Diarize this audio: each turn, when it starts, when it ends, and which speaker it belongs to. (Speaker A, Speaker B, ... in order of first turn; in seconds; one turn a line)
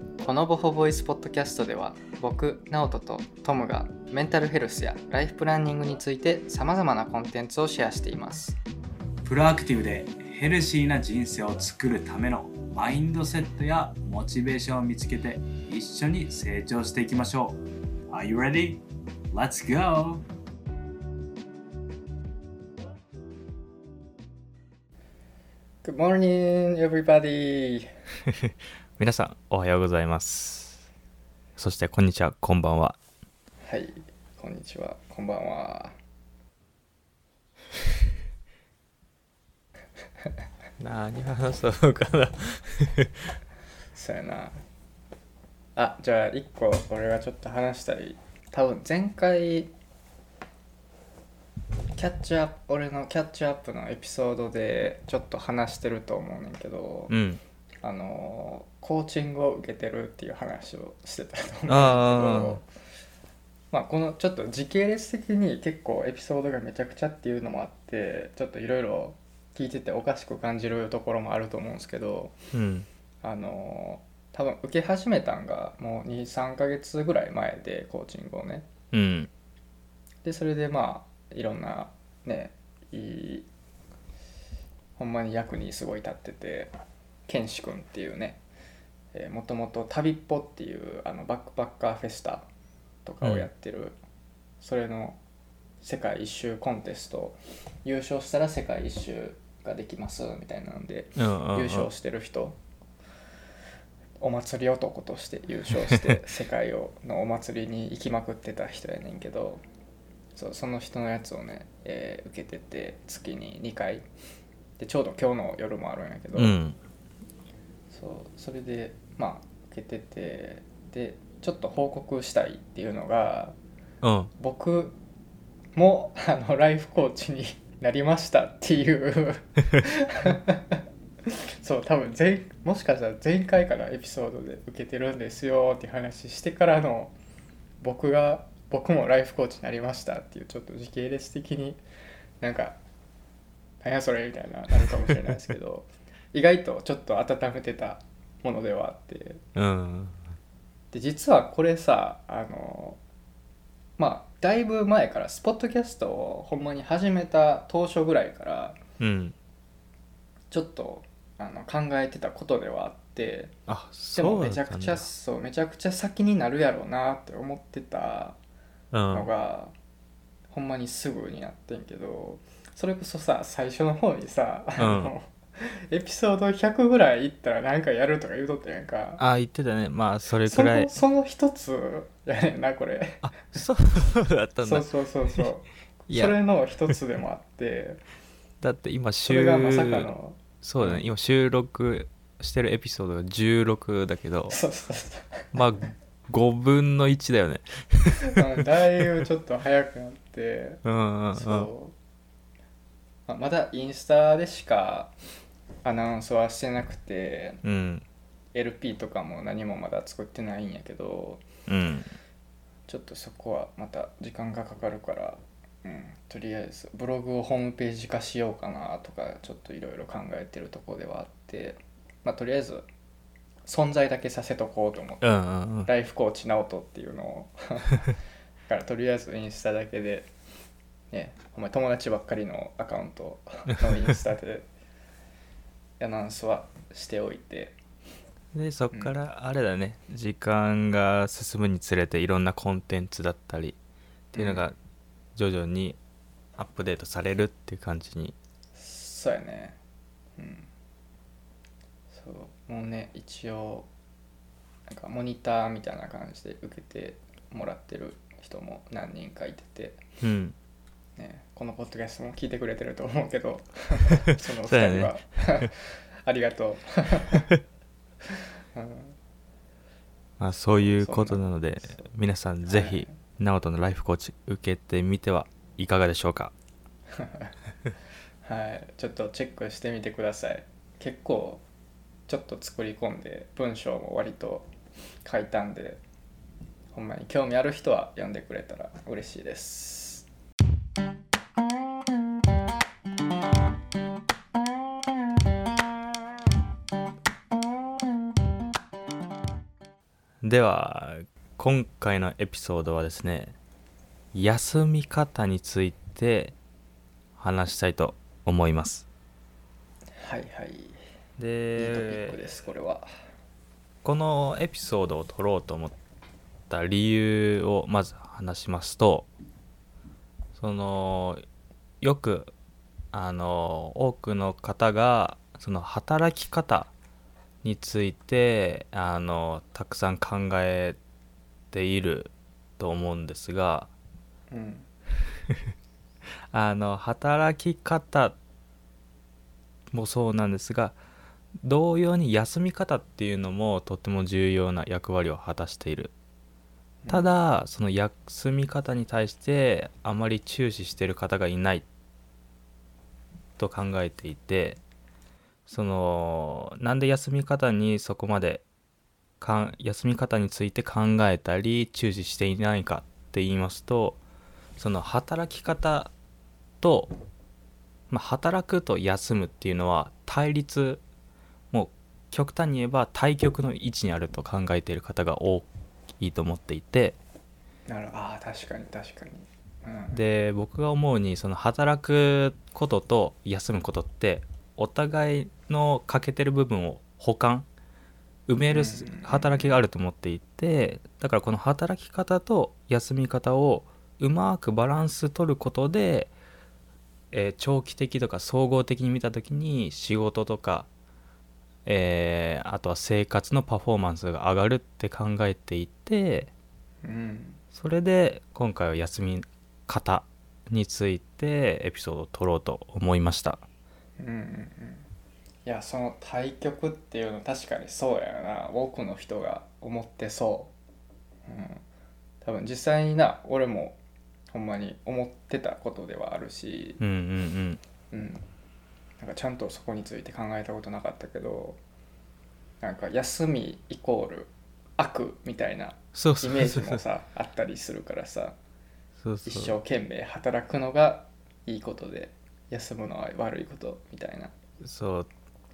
Speaker A: 0.2-8.6
Speaker B: 9.2-17.5
Speaker B: 18.1-18.8
Speaker B: 19.3-20.2
Speaker A: 25.8-27.9
Speaker C: 28.3-30.8
Speaker C: 31.6-33.0
Speaker A: 33.6-35.9
Speaker C: 40.8-43.3
Speaker A: 43.9-44.6
Speaker A: 45.8-49.7
Speaker A: 52.0-57.1
Speaker C: 57.1-57.4
Speaker A: 57.8-62.6
Speaker C: 61.7-62.6
Speaker A: 63.7-72.3
Speaker C: 72.5-72.9
Speaker A: 73.2-78.7
Speaker C: 78.9-79.3
Speaker A: 80.2-83.5
Speaker A: 85.0-86.7
Speaker A: 87.3-88.4
Speaker A: 89.1-92.5
Speaker A: 93.0-94.0
Speaker C: 93.2-93.5
Speaker A: 94.6-95.2
Speaker A: 95.8-102.6
Speaker C: 101.2-101.9
Speaker A: 104.2-109.6
Speaker A: 110.3-114.0
Speaker A: 114.8-116.6
Speaker C: 116.3-116.8
Speaker A: 117.9-123.6
Speaker C: 124.0-124.3
Speaker A: 124.4-125.0
Speaker A: 125.8-137.1
Speaker A: 137.8-141.8
Speaker A: 142.4-142.8
Speaker A: 143.8-149.4
Speaker C: 149.5-150.2
Speaker A: 150.9-153.0
Speaker A: 154.0-158.8
Speaker C: 159.0-159.3
Speaker A: 160.5-163.5
Speaker C: 163.7-165.1
Speaker A: 164.1-168.4
Speaker C: 168.9-169.3
Speaker A: 169.1-169.7
Speaker A: 170.5-179.2
Speaker C: 174.8-175.1
Speaker C: 179.2-180.9
Speaker A: 180.4-183.3
Speaker C: 183.2-185.4
Speaker A: 184.6-188.0
Speaker C: 186.1-186.3
Speaker C: 188.6-194.6
Speaker A: 189.2-191.1
Speaker A: 194.5-195.5
Speaker C: 195.5-198.4
Speaker A: 198.2-200.8
Speaker C: 200.8-201.7
Speaker A: 201.3-201.9
Speaker A: 203.3-205.1
Speaker A: 205.8-207.6
Speaker C: 207.6-208.0
Speaker A: 208.5-211.4
Speaker C: 211.7-212.1
Speaker A: 212.9-222.9
Speaker A: 223.7-225.3
Speaker C: 225.2-225.9
Speaker A: 225.8-228.1
Speaker A: 228.7-230.3
Speaker A: 231.1-234.7
Speaker A: 236.0-237.8
Speaker C: 238.5-243.8
Speaker C: 244.3-244.8
Speaker A: 244.3-244.6
Speaker C: 245.3-246.0
Speaker C: 246.6-248.3
Speaker A: 248.7-249.8
Speaker A: 250.4-250.7
Speaker A: 252.1-253.9
Speaker A: 254.9-260.0
Speaker C: 260.2-260.5
Speaker A: 261.2-267.5
Speaker C: 264.6-265.7
Speaker A: 268.7-269.1
Speaker C: 270.4-276.5
Speaker A: 270.9-272.1
Speaker A: 272.7-273.2
Speaker A: 277.1-277.5
Speaker A: 278.4-281.6
Speaker A: 282.3-284.7
Speaker A: 285.2-286.0
Speaker A: 286.9-290.2
Speaker C: 300.4-303.6
Speaker C: 304.3-306.5
Speaker C: 307.4-309.1
Speaker A: 310.1-311.0
Speaker C: 311.4-312.4
Speaker A: 311.8-313.1
Speaker C: 314.0-315.9
Speaker C: 316.7-319.3
Speaker C: 320.6-321.4
Speaker C: 322.0-322.5
Speaker C: 323.1-326.9
Speaker C: 327.6-331.0
Speaker C: 331.7-333.9
Speaker A: 334.5-334.9
Speaker C: 336.5-338.4
Speaker C: 339.9-341.0
Speaker C: 341.6-346.1
Speaker A: 347.0-347.3
Speaker C: 347.1-351.9
Speaker C: 353.6-354.8
Speaker C: 355.7-358.6
Speaker C: 359.4-364.2
Speaker C: 364.8-366.1
Speaker C: 366.8-367.1
Speaker C: 368.1-371.0
Speaker C: 371.7-375.7
Speaker C: 376.2-377.2
Speaker A: 377.9-380.2
Speaker C: 380.1-387.7
Speaker C: 388.5-396.3
Speaker A: 388.7-389.6
Speaker C: 397.3-400.9
Speaker C: 401.8-406.5
Speaker A: 407.0-407.6
Speaker C: 407.7-413.6
Speaker A: 414.2-415.1
Speaker A: 415.6-420.7
Speaker A: 421.5-421.8
Speaker A: 422.4-424.0
Speaker A: 424.5-427.0
Speaker C: 427.0-427.8
Speaker A: 428.1-428.4
Speaker A: 429.2-431.8
Speaker A: 432.8-438.6
Speaker C: 436.1-437.0
Speaker C: 439.2-439.8
Speaker A: 439.4-444.5
Speaker C: 444.8-445.3